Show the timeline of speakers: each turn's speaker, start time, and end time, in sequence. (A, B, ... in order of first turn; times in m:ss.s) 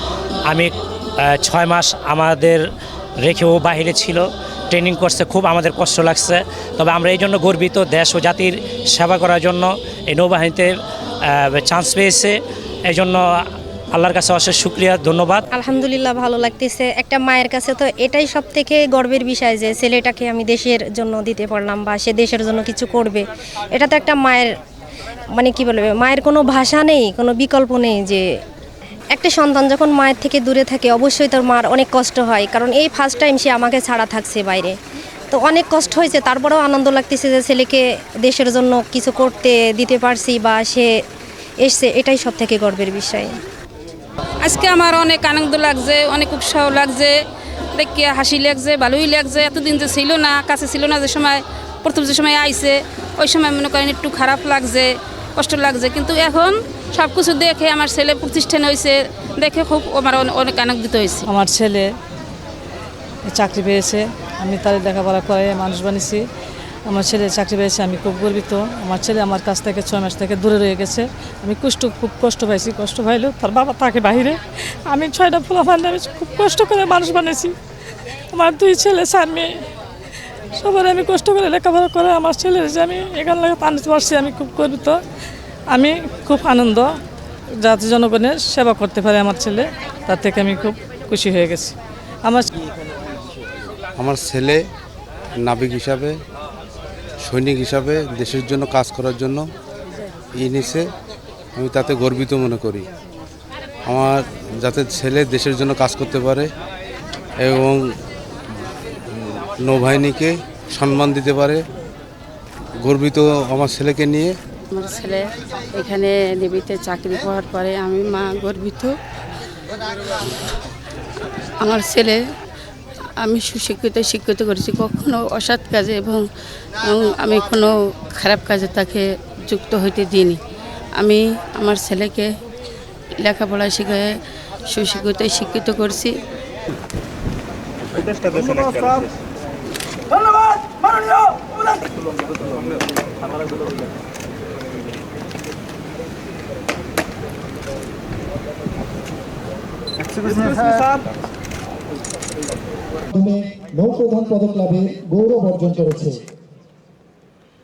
0:00.5-0:02.7 A
0:03.2-0:10.7 A
0:11.3-0:13.2 A
0:13.9-0:15.4 A
0:15.5-0:24.5 B
0:25.3-0:28.3 B
0:29.1-0:34.7 B
0:35.3-0:41.0 B
0:41.6-0:43.4 B
0:44.4-0:47.2 C
0:47.7-1:01.2 C
1:01.2-1:01.9 D
1:03.3-1:06.2 D
1:06.9-1:14.4 D
1:14.9-1:17.5 D
1:18.3-1:19.5 D
1:20.6-1:25.0 D
1:25.7-1:26.9 D
1:27.6-1:31.7 D
1:32.2-1:32.5 D
1:34.0-1:34.6 E
1:35.4-1:36.2 E
1:37.2-1:39.4 E
1:40.3-1:40.9 E
1:41.6-1:42.8 E
1:43.8-1:46.5 E
1:47.4-1:47.8 E
1:49.1-1:51.6 E
1:52.8-1:54.3 E
1:54.7-1:59.0 F
2:01.6-2:02.2 F
2:03.2-2:06.2 F
2:06.8-2:10.4 F
2:11.0-2:12.3 F
2:13.2-2:14.1 F
2:14.7-2:16.2 F
2:33.2-2:36.2 G